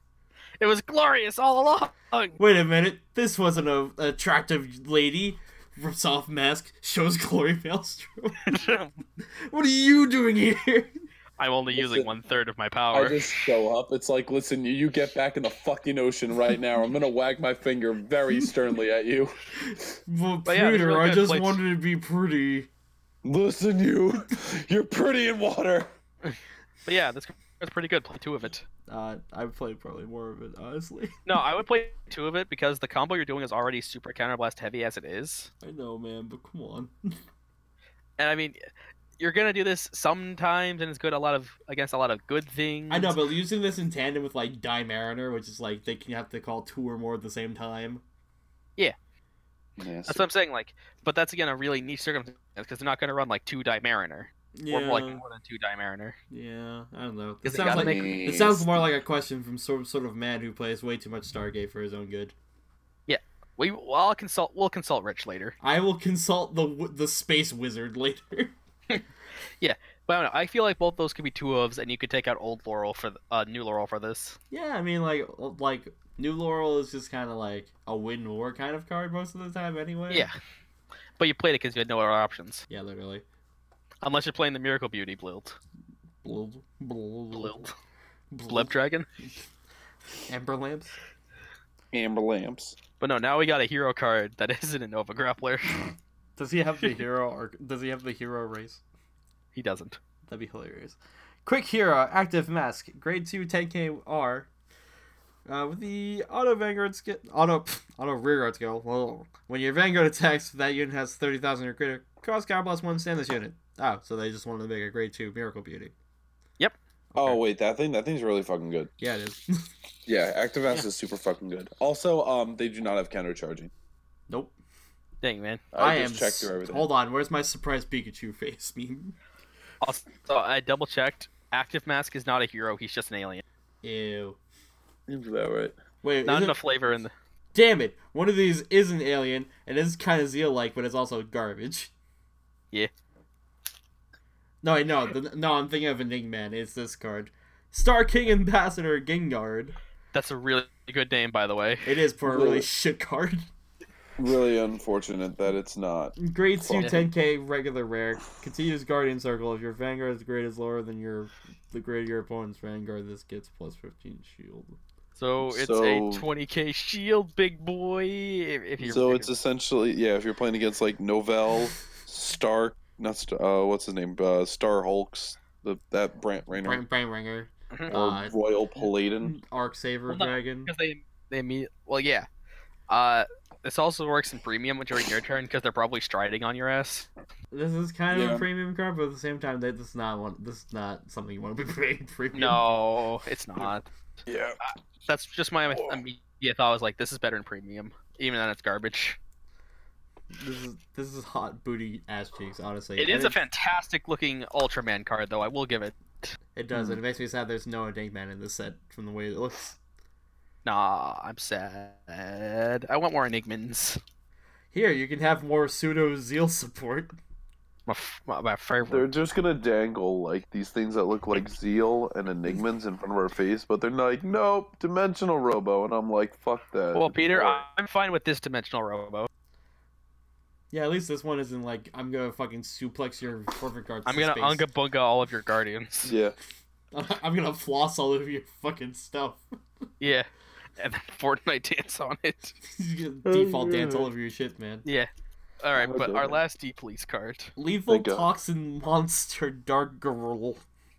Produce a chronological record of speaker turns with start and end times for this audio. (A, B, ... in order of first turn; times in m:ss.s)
0:00.6-0:02.4 A
0:02.4-0:08.5 B
0:08.4-0:08.9 A
0:09.3-0:10.9 B
0:11.4-0:13.5 A
0:11.7-0:12.1 C
0:12.9-0:19.3 C
0:19.7-0:22.7 B
0:20.5-0:21.6 A
0:23.2-0:25.9 C
0:26.2-0:28.6 A
0:28.9-0:31.2 B
0:31.2-0:35.5 A
0:35.6-0:37.1 B
0:38.2-0:38.6 A
0:39.2-0:43.2 A
0:42.9-0:48.0 B
0:49.8-0:50.2 C
0:50.0-0:56.2 A
0:54.6-0:55.2 B
0:56.3-1:02.3 B
0:57.4-0:58.2 A
0:57.6-0:58.8 C
1:03.1-1:05.6 A
1:05.6-1:08.5 B
1:09.6-1:14.4 A
1:14.5-1:20.3 B
1:20.1-1:20.3 A
1:21.2-1:22.7 A
1:22.7-1:23.2 B
1:24.0-1:25.6 A
1:26.2-1:27.6 B
1:27.3-1:27.7 A
1:28.3-1:28.7 B
1:28.5-1:29.1 A
1:30.3-1:31.0 B
1:31.9-1:32.8 C
1:33.0-1:35.9 A
1:36.4-1:38.8 B
1:39.5-1:40.0 A
1:40.3-1:44.5 B
1:45.4-1:55.9 B
1:57.2-1:58.9 C
1:59.0-1:59.7 B
2:00.0-2:03.7 C
2:04.3-2:04.5 B
2:05.2-2:05.6 A
2:05.7-2:06.9 C
2:05.8-2:09.1 B
2:09.8-2:13.4 A
2:13.8-2:14.4 B
2:15.1-2:15.8 C
2:16.0-2:16.6 B
2:16.2-2:17.1 A
2:17.5-2:21.9 B
2:24.6-2:29.8 B
2:30.1-2:31.9 A
2:31.8-2:33.5 B
2:32.2-2:32.7 C
2:34.2-2:37.0 C
2:36.2-2:44.8 B
2:36.8-2:37.1 A
2:45.2-2:49.3 A
2:45.4-2:46.3 C
2:48.8-2:56.8 C
2:56.6-2:58.3 B
2:57.9-2:59.4 C
2:59.2-3:00.7 B
3:00.1-3:02.3 A
3:02.9-3:07.1 A
3:07.5-3:12.6 B
3:08.1-3:08.4 C
3:12.3-3:13.9 A
3:14.2-3:14.6 C
3:14.6-3:19.2 A
3:15.7-3:16.0 C
3:20.3-3:23.4 B
3:23.0-3:26.3 A
3:26.6-3:29.8 B
3:26.7-3:27.0 C
3:30.6-3:34.0 A
3:34.7-3:37.2 B
3:37.8-3:39.1 A
3:38.8-3:47.6 C
3:46.9-3:49.3 A
3:50.7-3:54.6 B
3:54.0-3:56.1 A
3:56.0-3:56.4 C
3:56.9-3:59.4 B
4:00.0-4:02.6 A
4:02.6-4:04.8 B
4:03.2-4:04.1 C
4:05.6-4:07.5 A
4:05.7-4:06.4 C
4:07.6-4:10.6 B
4:07.9-4:08.3 C